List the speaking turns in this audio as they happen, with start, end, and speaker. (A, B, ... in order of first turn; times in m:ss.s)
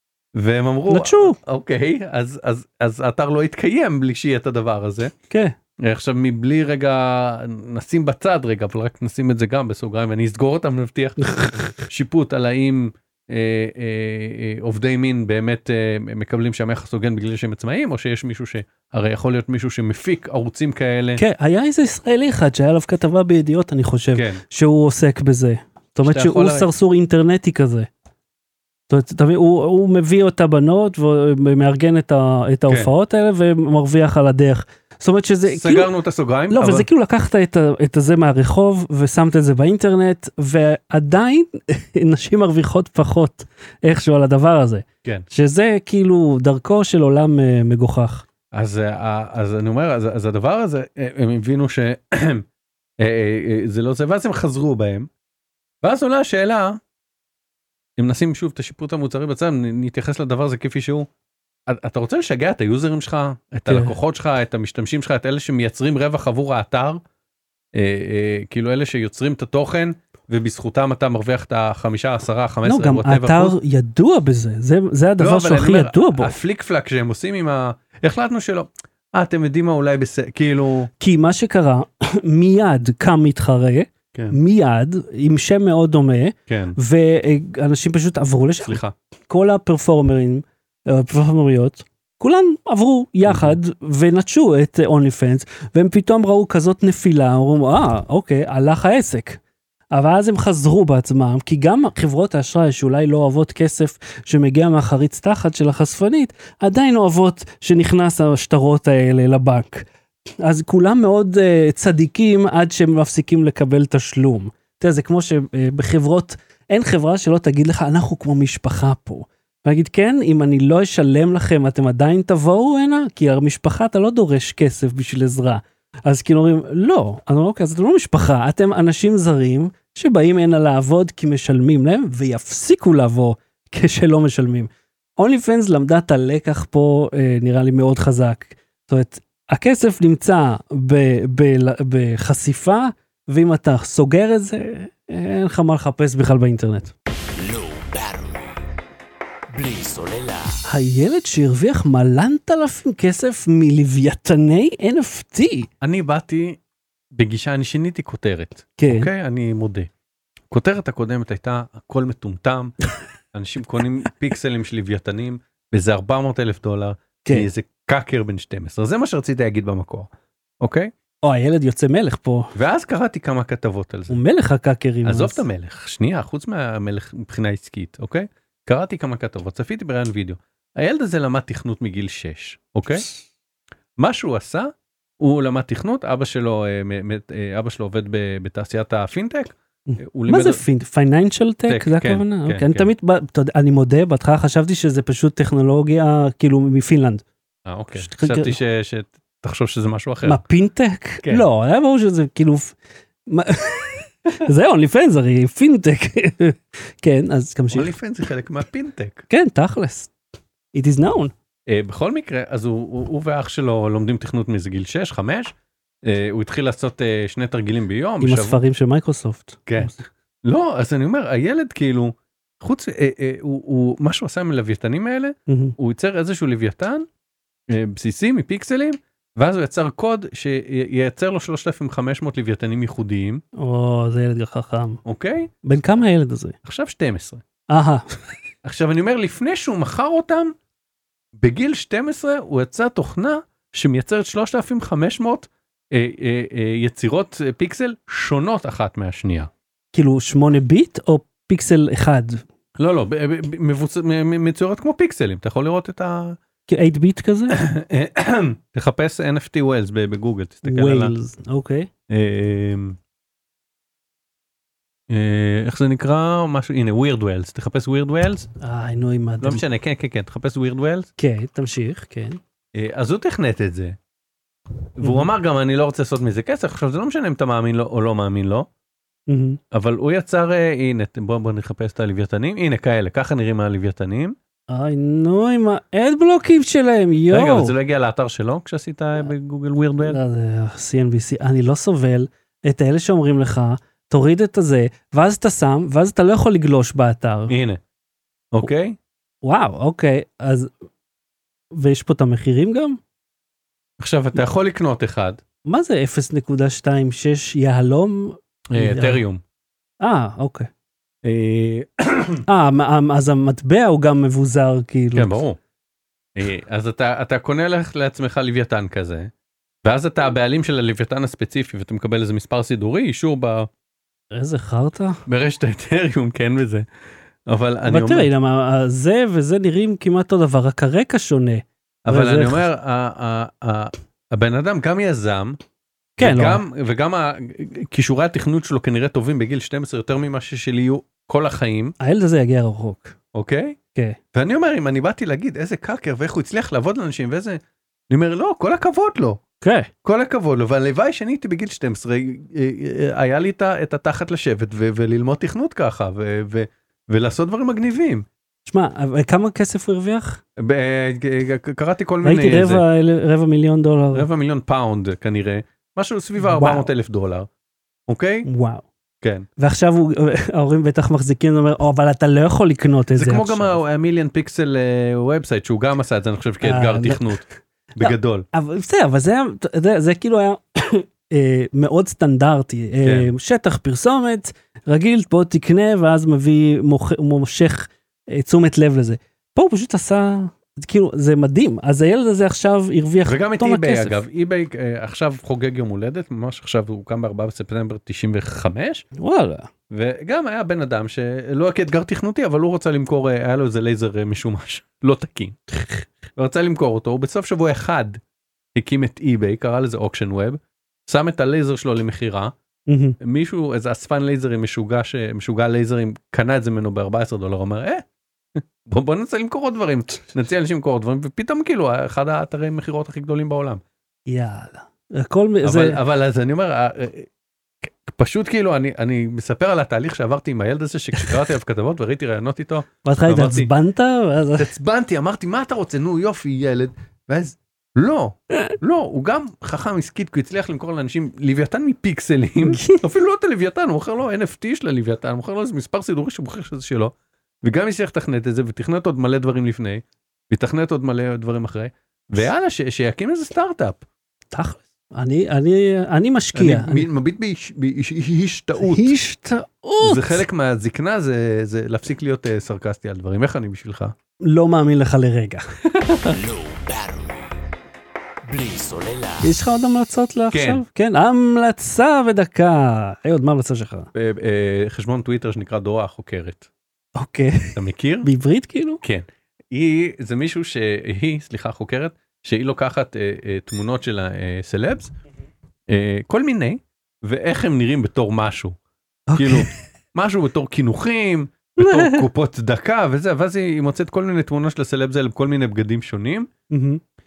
0:00.3-0:05.1 A
0:00.9-0:01.4 B
0:05.3-0:05.6 B
0:05.8-0:21.2 A
0:11.2-0:11.7 B
0:21.2-0:27.9 B
0:24.1-0:24.4 A
0:26.0-0:26.7 A
0:28.9-0:35.9 B
0:35.5-0:36.9 A
0:36.5-0:48.3 B
0:48.5-0:52.4 A
0:53.0-0:55.1 A
0:55.8-0:56.8 A
0:58.0-1:01.1 A
1:01.7-1:07.0 A
1:03.7-1:03.9 B
1:07.7-1:13.6 A
1:12.6-1:16.4 B
1:15.2-1:20.9 A
1:21.0-1:49.9 B
1:26.5-1:26.8 A
1:28.6-1:28.9 A
1:33.3-1:33.6 A
1:50.4-2:26.9 B
2:27.3-2:28.7 C
2:29.5-2:30.6 C
2:30.6-2:35.7 B
2:35.8-2:36.6 A
2:37.1-2:39.9 A
2:38.8-2:39.1 B
2:40.5-2:42.8 A
2:43.3-2:50.1 A
2:50.6-2:50.9 A
2:51.2-2:52.5 B
2:52.6-2:54.2 A
2:54.1-2:55.4 B
2:55.0-3:03.1 A
3:04.0-3:10.6 A
3:09.9-3:17.2 B
3:11.7-3:12.9 A
3:17.6-3:20.4 A
3:18.0-3:18.6 B
3:20.2-3:22.8 B
3:23.3-3:27.9 B
3:27.7-3:29.3 A
3:29.3-3:30.1 B
3:30.7-3:31.3 B
3:31.7-3:38.6 A
3:38.2-3:40.0 B
3:39.7-3:47.1 A
3:45.5-3:45.8 B
3:47.7-3:53.4 A
3:53.6-3:55.0 B
3:55.0-3:55.5 A
3:55.6-3:56.6 B
3:56.6-3:57.4 A
3:57.7-3:58.0 B
3:58.6-4:00.5 A
4:01.4-4:09.5 A
4:09.9-4:12.4 B
4:12.8-4:16.4 A
4:16.7-4:17.6 B
4:17.5-4:21.1 A
4:20.6-4:21.9 B
4:22.1-4:23.0 A
4:25.1-4:28.5 A
4:28.6-4:29.6 B
4:29.4-4:31.1 A
4:31.2-4:32.4 B
4:32.8-4:34.0 A
4:35.0-4:38.7 A
4:35.0-4:35.3 B
4:39.3-4:39.6 B
4:39.7-4:44.4 A
4:44.7-4:47.7 B
4:47.3-4:50.2 A
4:50.0-4:57.5 B
4:57.5-4:57.8 A
4:58.5-4:59.0 A
4:59.4-5:00.7 B
5:01.7-5:03.0 B
5:04.0-5:05.4 A
5:05.6-5:09.2 B
5:08.7-5:09.4 A
5:10.0-5:10.7 B
5:11.2-5:12.4 A
5:12.5-5:15.4 B
5:15.2-5:15.6 A
5:16.4-5:19.3 A
5:19.8-5:23.7 A
5:24.3-5:25.2 B
5:25.2-5:26.9 A
5:27.5-5:28.3 A
5:27.9-5:32.6 B
5:32.1-5:35.6 A
5:36.2-5:36.6 B
5:36.2-5:41.9 A
5:42.0-5:43.2 B
5:43.3-5:43.8 A
5:44.3-5:49.4 A
5:49.6-5:49.9 B
5:50.0-5:58.3 A
5:58.7-6:00.4 B
6:00.6-6:02.8 A
6:02.2-6:04.3 B
6:04.1-6:07.5 A
6:06.4-6:06.9 B
6:08.1-6:08.5 A
6:08.4-6:08.9 B
6:09.2-6:09.5 A
6:09.6-6:13.7 B
6:13.1-6:17.4 A
6:16.6-6:34.2 B
6:18.0-6:18.5 A
6:23.0-6:23.3 A
6:33.2-6:39.1 A
6:39.2-6:39.7 B
6:39.9-6:45.6 A
6:46.4-6:48.2 A
6:48.8-6:52.5 A
6:52.9-6:53.2 B
6:53.2-6:58.0 A
6:58.5-7:03.8 A
7:04.3-7:06.0 B
7:05.6-7:07.3 A
7:07.8-7:13.7 A
7:13.0-7:14.7 B
7:14.6-7:34.0 A
7:22.6-7:23.0 B
7:34.5-7:37.1 B
7:36.5-7:39.1 A
7:38.8-7:40.4 B
7:40.0-7:44.1 A
7:44.4-7:45.6 B
7:45.9-7:46.4 A
7:46.3-7:47.6 C
7:48.4-7:49.5 C
7:49.4-7:54.1 B
7:50.5-7:50.8 A
7:54.1-7:56.7 A
7:57.2-7:59.0 B
7:57.8-7:58.3 A
7:59.0-8:05.1 A
8:05.9-8:08.8 A
8:09.3-8:09.7 B
8:09.4-8:16.5 A
8:11.8-8:12.2 B
8:16.7-8:17.0 B